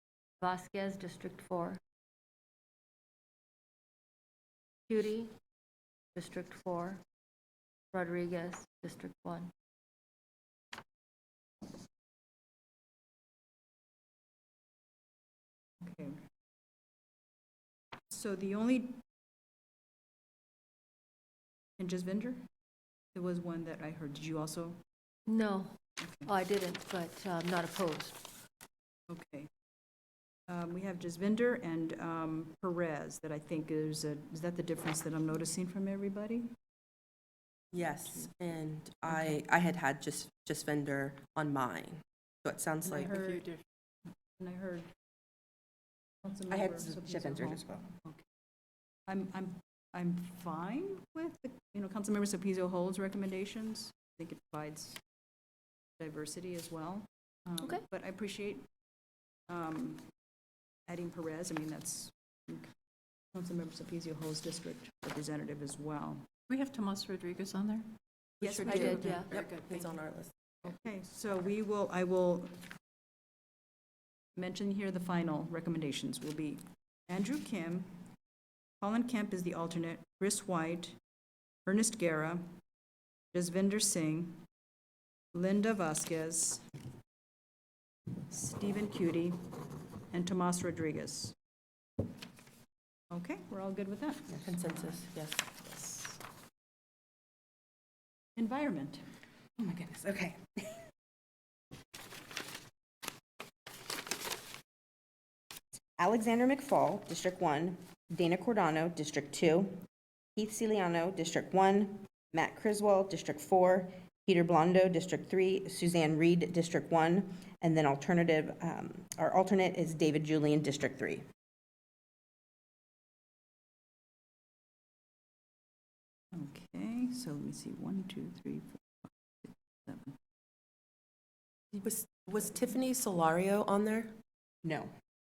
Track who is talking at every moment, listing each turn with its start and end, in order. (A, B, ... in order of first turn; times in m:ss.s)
0:00.4-0:01.8 A
0:04.9-0:05.3 A
0:06.1-0:07.0 A
0:07.9-0:09.5 A
0:15.8-0:16.2 B
0:18.1-0:19.0 B
0:21.8-0:22.4 B
0:23.1-0:24.8 B
0:25.3-0:28.3 A
0:26.0-0:26.3 B
0:29.1-0:29.5 B
0:30.5-0:36.5 B
0:37.7-0:43.2 C
0:42.9-0:43.4 B
0:44.4-0:44.9 B
0:46.2-0:48.2 B
0:46.5-0:47.8 D
0:49.1-0:55.0 B
0:56.0-0:58.7 B
0:57.6-0:57.8 A
0:59.5-1:00.1 B
1:00.9-1:02.7 B
1:03.3-1:06.2 B
1:06.5-1:07.9 E
1:08.4-1:09.2 B
1:08.4-1:09.9 E
1:08.6-1:09.3 A
1:09.3-1:10.3 C
1:10.6-1:12.6 B
1:14.3-1:18.0 B
1:18.8-1:21.0 B
1:21.6-1:22.5 B
1:23.3-1:24.4 B
1:25.3-1:26.6 B
1:28.3-1:31.3 B
1:33.1-1:34.3 B
1:34.4-1:35.7 C
1:35.7-1:36.2 B
1:38.4-1:39.0 B
1:39.6-1:40.8 D
1:46.0-1:49.8 D
1:50.4-2:01.2 D
2:06.3-2:10.2 B
2:11.7-2:14.1 C
2:14.6-2:14.9 D